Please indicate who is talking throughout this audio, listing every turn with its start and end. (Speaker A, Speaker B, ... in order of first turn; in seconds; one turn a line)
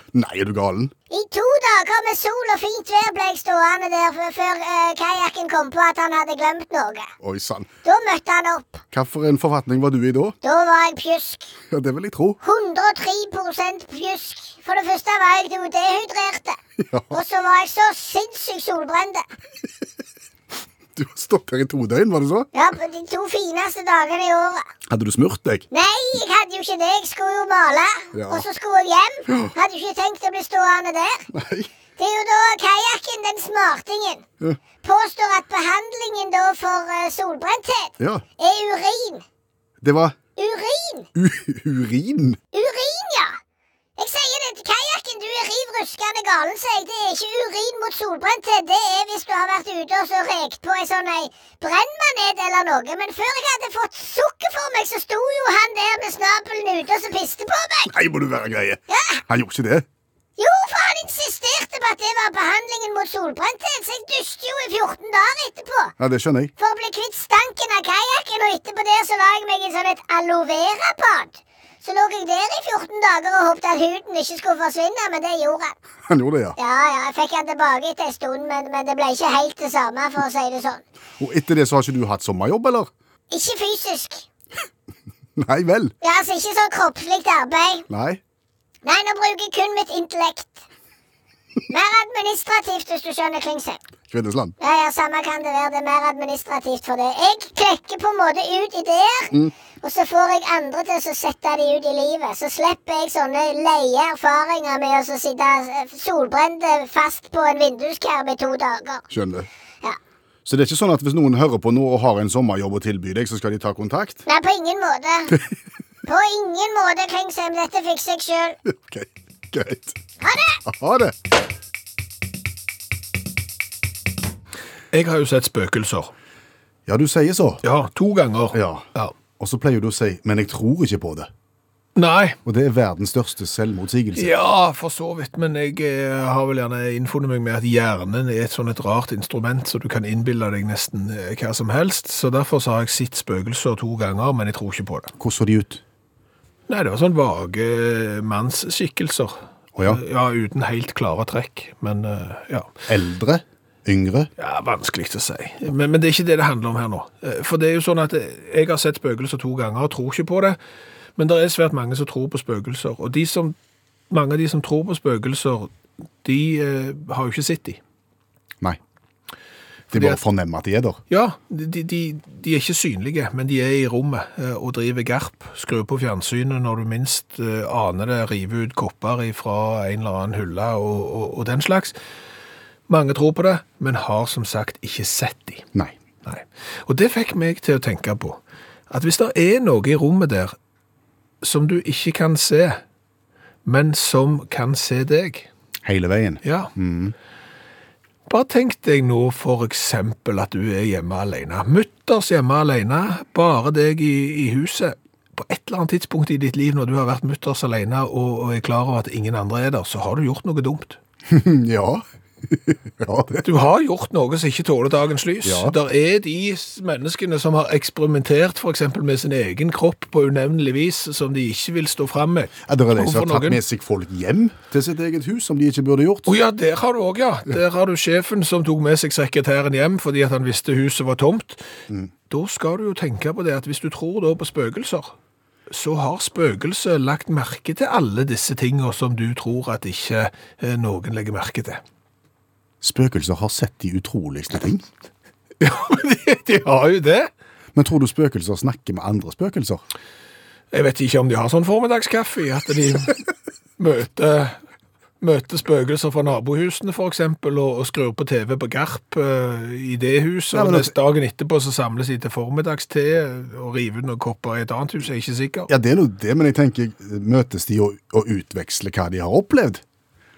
Speaker A: 0.1-0.9
Speaker B: 1.1-7.1
Speaker A: 7.2-7.7
Speaker B: 7.8-8.8
Speaker A: 8.9-10.3
Speaker B: 10.4-11.5
Speaker A: 11.7-12.4
Speaker B: 12.4-16.6
Speaker A: 16.8-17.1
Speaker B: 17.1-19.2
Speaker A: 20.9-22.5
Speaker B: 22.5-24.6
Speaker A: 24.9-25.6
Speaker B: 25.7-31.3
Speaker A: 28.1-28.4
Speaker A: 29.3-29.5
Speaker A: 31.3-31.7
Speaker B: 32.0-34.2
Speaker B: 34.8-39.2
Speaker A: 38.0-38.2
Speaker A: 39.8-40.2
Speaker B: 40.4-41.1
Speaker A: 41.1-42.4
Speaker B: 42.5-43.4
Speaker B: 44.0-57.9
Speaker A: 57.9-59.9
Speaker B: 58.9-59.2
Speaker B: 60.4-65.9
Speaker A: 66.0-66.5
Speaker B: 66.6-75.8
Speaker A: 76.1-76.5
Speaker B: 76.6-80.8
Speaker A: 81.2-82.9
Speaker B: 83.3-84.2
Speaker A: 85.4-85.9
Speaker B: 86.0-87.9
Speaker A: 87.9-88.2
Speaker B: 88.8-90.6
Speaker B: 91.7-93.8
Speaker A: 94.1-94.5
Speaker B: 94.6-109.0
Speaker A: 109.1-109.5
Speaker A: 110.4-114.2
Speaker B: 114.2-115.4
Speaker B: 116.0-118.6
Speaker A: 118.7-120.0
Speaker B: 120.2-120.6
Speaker A: 120.6-121.1
Speaker C: 124.9-126.1
Speaker A: 126.8-127.6
Speaker C: 127.6-129.1
Speaker A: 128.5-128.9
Speaker A: 129.4-131.3
Speaker C: 131.9-132.4
Speaker A: 132.4-134.3
Speaker C: 134.2-145.1
Speaker A: 145.2-145.8
Speaker C: 146.7-152.7
Speaker A: 149.8-150.0
Speaker A: 152.9-154.3
Speaker C: 154.4-160.6
Speaker C: 161.2-163.6
Speaker C: 164.1-165.7
Speaker C: 166.2-167.8
Speaker C: 169.9-170.2
Speaker A: 169.9-171.0
Speaker C: 171.1-181.9
Speaker C: 182.9-185.7
Speaker C: 186.2-188.4
Speaker C: 188.9-190.5
Speaker C: 191.4-192.8
Speaker C: 193.6-195.5
Speaker A: 195.8-197.1
Speaker C: 196.4-196.7
Speaker C: 198.3-211.0
Speaker A: 211.3-213.4
Speaker C: 213.4-223.6
Speaker A: 215.4-215.7
Speaker A: 222.7-226.3
Speaker C: 226.3-231.6
Speaker C: 232.3-235.1
Speaker C: 235.7-241.8
Speaker A: 242.8-244.8
Speaker C: 245.6-247.3
Speaker A: 247.7-249.8
Speaker C: 250.7-253.2
Speaker C: 253.8-254.6
Speaker C: 255.2-265.7
Speaker A: 260.5-260.9
Speaker A: 265.7-269.8